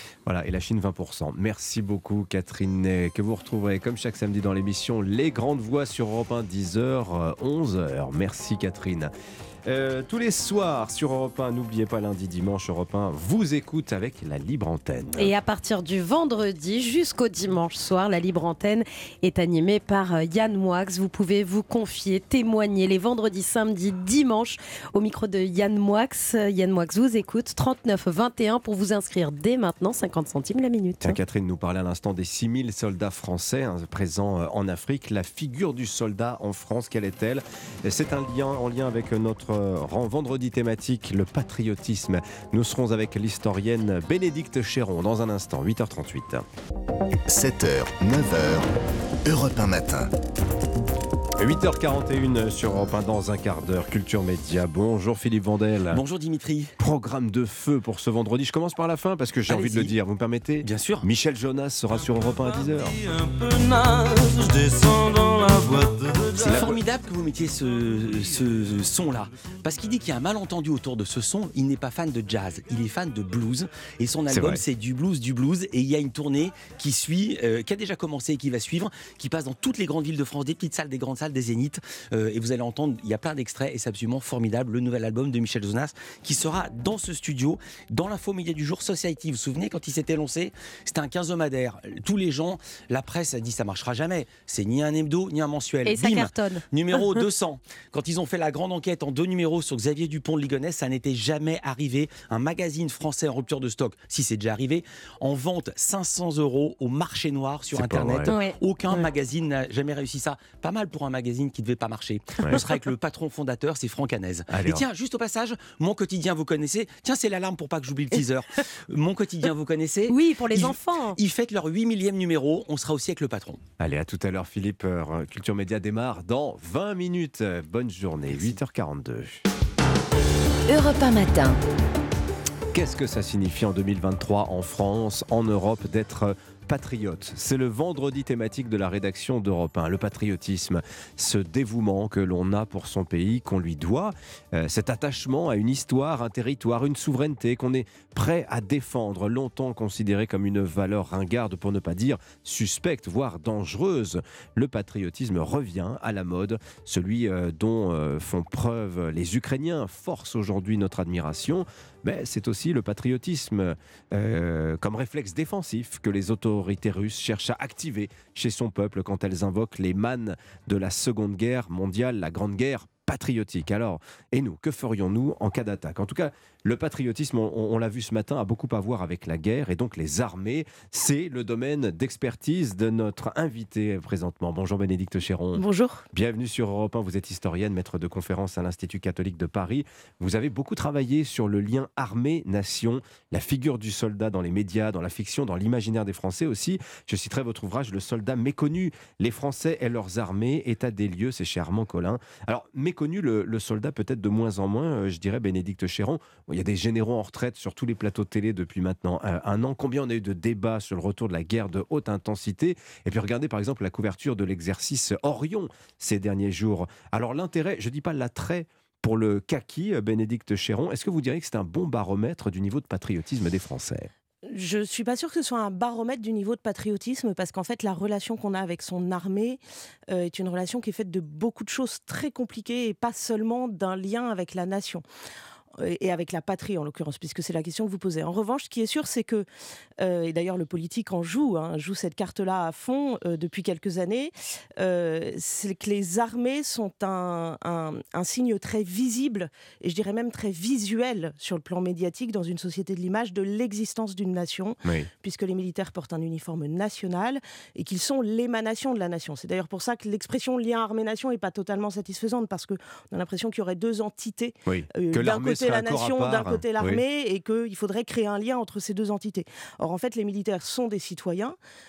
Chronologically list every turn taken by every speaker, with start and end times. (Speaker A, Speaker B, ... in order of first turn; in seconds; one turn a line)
Speaker A: 0.3-9.1
Speaker A: 9.7-15.3
Speaker B: 15.2-31.2
Speaker A: 31.0-46.5
Speaker C: 47.3-48.7
Speaker C: 49.3-50.1
Speaker A: 51.4-56.1
Speaker D: 55.9-56.7
Speaker A: 56.8-63.0
Speaker D: 59.5-59.9
Speaker D: 60.6-61.1
Speaker D: 66.4-123.6
Speaker A: 66.4-66.8
Speaker A: 74.3-74.6
Speaker B: 95.8-97.3
Speaker A: 107.7-108.4
Speaker B: 108.3-109.1
Speaker A: 114.5-114.9
Speaker B: 120.1-121.2
Speaker A: 123.8-129.4
Speaker B: 130.7-131.4
Speaker A: 132.7-224.1
Speaker B: 185.6-186.0
Speaker E: 224.5-235.0
Speaker E: 235.8-239.5
Speaker E: 240.0-271.6
Speaker A: 264.7-267.0